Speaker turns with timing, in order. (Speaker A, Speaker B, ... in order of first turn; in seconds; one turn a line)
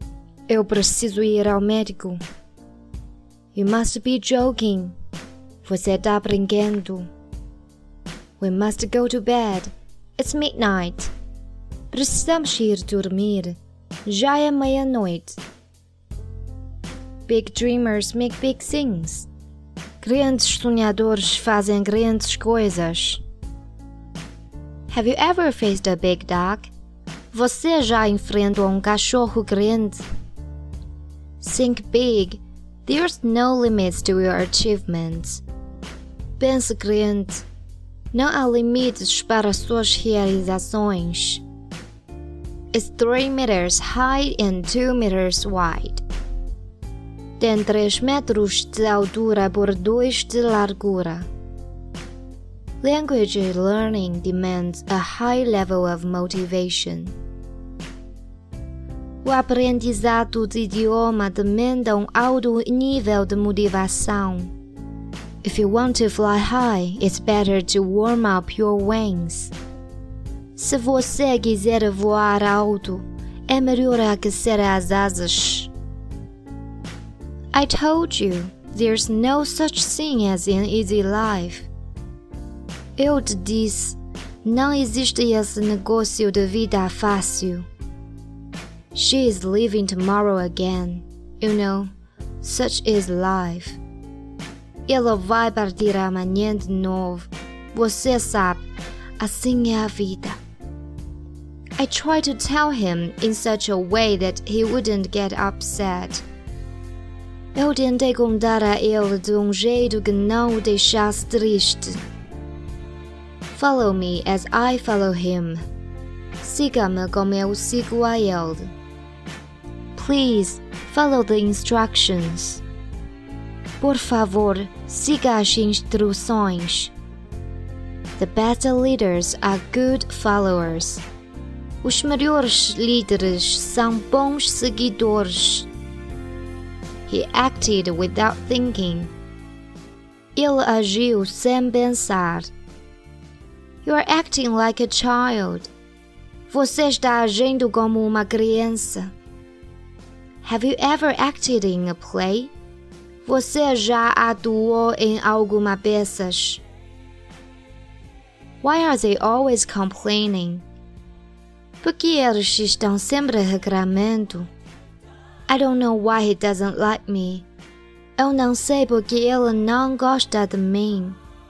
Speaker A: 0.5-2.2
Speaker A: 3.5-5.0
Speaker A: 5.6-7.1
Speaker A: 8.4-11.1
Speaker A: 11.9-15.4
Speaker A: 17.3-19.3
Speaker A: 20.0-23.2
Speaker A: 24.9-26.7
Speaker A: 27.3-30.1
Speaker A: 31.4-35.4
Speaker A: 36.4-37.5
Speaker A: 38.1-41.4
Speaker A: 42.7-46.0
Speaker A: 47.4-51.3
Speaker A: 52.8-57.2
Speaker A: 59.2-64.5
Speaker A: 65.4-69.5
Speaker A: 70.6-75.7
Speaker A: 77.5-81.7
Speaker A: 83.0-87.7
Speaker A: 88.9-93.8
Speaker A: 94.9-98.7
Speaker A: 99.2-100.4
Speaker A: 101.8-106.2
Speaker A: 107.5-112.0
Speaker A: 113.5-115.6
Speaker A: 116.4-118.7
Speaker A: 120.0-122.6
Speaker A: 123.8-126.9
Speaker A: 128.2-131.0
Speaker A: 131.8-135.7
Speaker A: 137.1-139.1
Speaker A: 140.4-142.5
Speaker A: 143.8-145.7
Speaker A: 146.5-149.1
Speaker A: 150.4-152.5
Speaker A: 153.2-156.6
Speaker A: 158.6-160.7
Speaker A: 161.8-164.5
Speaker A: 165.5-167.5
Speaker A: 168.2-171.2